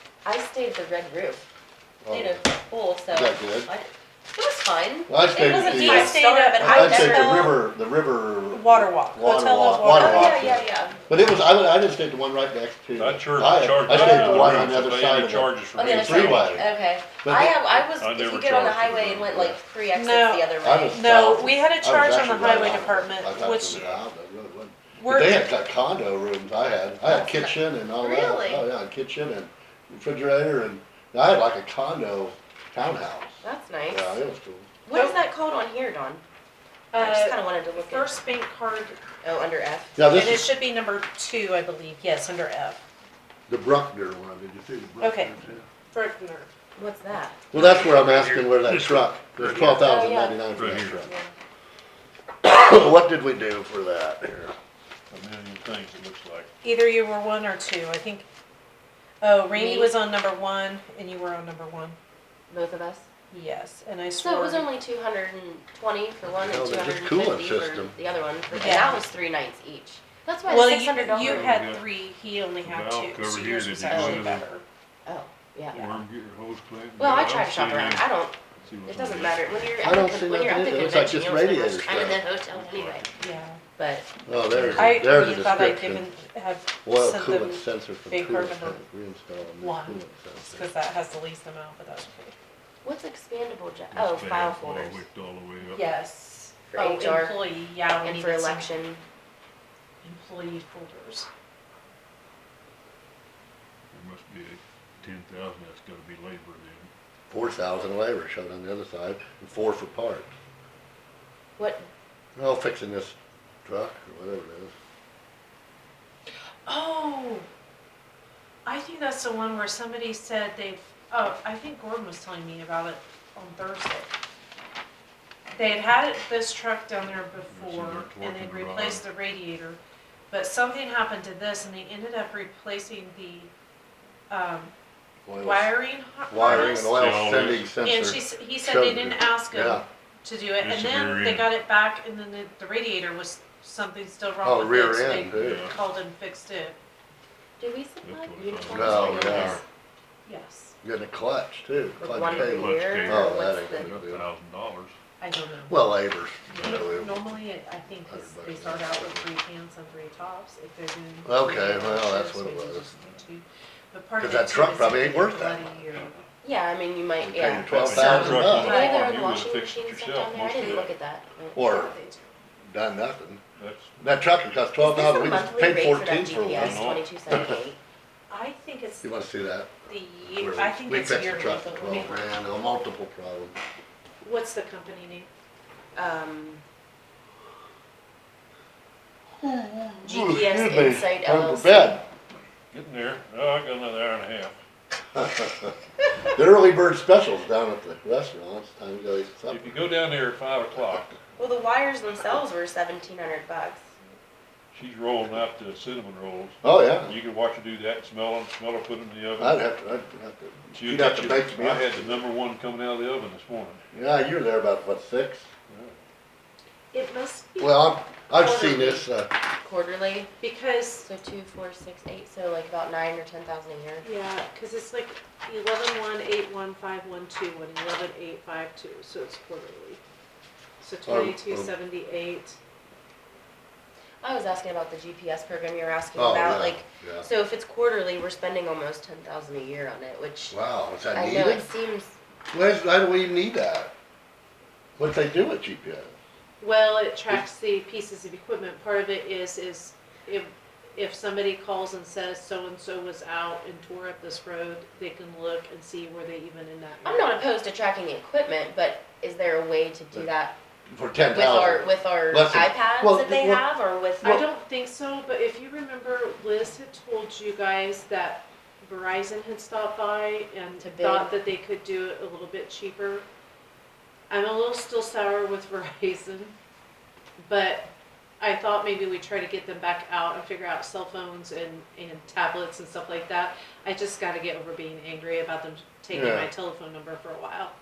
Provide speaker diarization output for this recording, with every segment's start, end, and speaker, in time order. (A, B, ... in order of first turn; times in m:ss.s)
0:00.2-0:01.4 A
0:02.0-0:02.4 B
0:02.1-0:07.6 A
0:03.1-0:03.7 B
0:05.1-0:16.7 B
0:05.5-0:07.6 C
0:08.5-0:10.4 C
0:09.8-0:11.0 A
0:13.0-0:16.7 D
0:13.9-0:14.4 C
0:15.8-0:21.0 A
0:17.2-0:17.7 B
0:17.8-0:19.3 D
0:19.3-0:19.6 B
0:19.9-0:23.8 C
0:20.6-0:34.7 B
0:23.3-0:24.0 D
0:25.0-0:25.4 C
0:27.0-0:28.7 A
0:33.4-0:34.2 A
0:34.8-0:36.2 A
0:34.9-0:35.2 C
0:36.9-0:39.0 C
0:37.0-0:38.1 A
0:39.2-0:40.0 A
0:40.0-0:40.5 B
0:40.1-0:42.8 C
0:43.5-0:45.7 B
0:45.0-0:45.3 C
0:45.9-0:46.5 C
0:46.8-0:47.4 A
0:47.5-0:51.1 B
0:47.5-0:49.9 D
0:49.6-0:51.3 A
0:50.6-0:51.0 D
0:52.4-0:54.5 B
0:55.1-0:56.5 D
0:56.6-0:58.3 C
0:59.2-1:02.0 C
0:59.5-0:59.9 A
1:02.5-1:03.1 A
1:03.3-1:04.7 C
1:04.2-1:11.5 A
1:06.3-1:08.0 B
1:08.6-1:09.0 C
1:10.5-1:14.6 C
1:11.2-1:12.0 D
1:12.6-1:14.5 D
1:13.9-1:14.3 A
1:15.1-1:16.0 A
1:15.7-1:19.8 D
1:17.0-1:23.1 A
1:19.8-1:22.3 B
1:22.5-1:23.1 D
1:23.2-1:23.6 C
1:23.8-1:24.1 A
1:24.3-1:26.1 B
1:24.5-1:25.0 D
1:24.8-1:28.8 C
1:26.8-1:30.7 B
1:29.6-1:32.4 C
1:32.8-1:35.0 A
1:33.9-1:35.8 D
1:35.6-1:38.8 C
1:36.7-1:37.4 A
1:38.0-1:39.0 A
1:40.0-1:41.3 C
1:43.9-1:46.9 D
1:47.3-1:50.3 B
1:51.6-1:51.9 A
1:52.4-1:54.7 B
1:56.7-1:57.5 C
1:58.6-2:04.1 C
2:05.5-2:13.5 C
2:07.5-2:09.0 D
2:14.3-2:14.7 C
2:15.3-2:15.7 B
2:15.4-2:17.0 C
2:16.3-2:19.8 B
2:16.4-2:17.7 D
2:17.8-2:26.8 C
2:20.6-2:21.5 D
2:24.4-2:25.7 B
2:25.3-2:25.7 D
2:27.6-2:29.6 A
2:28.0-2:29.6 D
2:28.7-2:29.6 B
2:30.3-2:30.8 C
2:30.8-2:34.3 B
2:32.0-2:33.9 A
2:32.2-2:35.0 D
2:35.2-2:35.9 C
2:35.7-2:37.3 B
2:36.5-2:46.2 C
2:38.1-2:39.3 B
2:41.2-2:42.9 B
2:44.2-2:45.8 B
2:45.9-2:46.2 D
2:46.4-2:51.8 A
2:47.2-2:48.8 B
2:47.7-2:50.9 D
2:48.6-2:49.0 C
2:51.6-2:52.0 B
2:51.6-2:52.3 C
2:52.7-2:53.4 B
2:53.6-2:54.1 D
2:54.0-2:57.3 B
2:54.8-2:57.8 A
2:56.5-2:57.1 D
2:58.3-2:59.1 C
2:59.0-3:03.6 B
2:59.9-3:02.4 C
3:04.2-3:05.3 C
3:06.0-3:06.6 A
3:09.4-3:12.1 B
3:10.0-3:12.0 A
3:12.7-3:14.6 D
3:15.1-3:15.8 B
3:16.3-3:19.8 B
3:19.5-3:21.1 D
3:21.4-3:23.9 A
3:24.7-3:29.6 D
3:26.6-3:27.2 B
3:29.4-3:32.2 B
3:30.7-3:33.8 D
3:33.9-3:35.5 B
3:35.7-3:36.0 D
3:36.9-3:39.1 C
3:37.6-3:39.3 B
3:39.6-3:40.3 A
3:40.4-3:41.1 C
3:41.0-3:44.1 A
3:44.0-3:50.0 C
3:50.8-3:52.6 C
3:51.1-3:51.7 B
3:54.2-4:00.6 A
3:56.2-3:57.3 B
4:00.5-4:01.7 B
4:01.1-4:02.2 A
4:02.5-4:03.9 B
4:05.0-4:06.1 B
4:06.6-4:17.4 C
4:17.0-4:20.6 A
4:20.9-4:23.6 B
4:21.3-4:24.4 A
4:24.2-4:33.3 C
4:30.8-4:31.4 A
4:34.3-4:36.6 C
4:37.4-4:47.7 C
4:46.1-4:46.5 B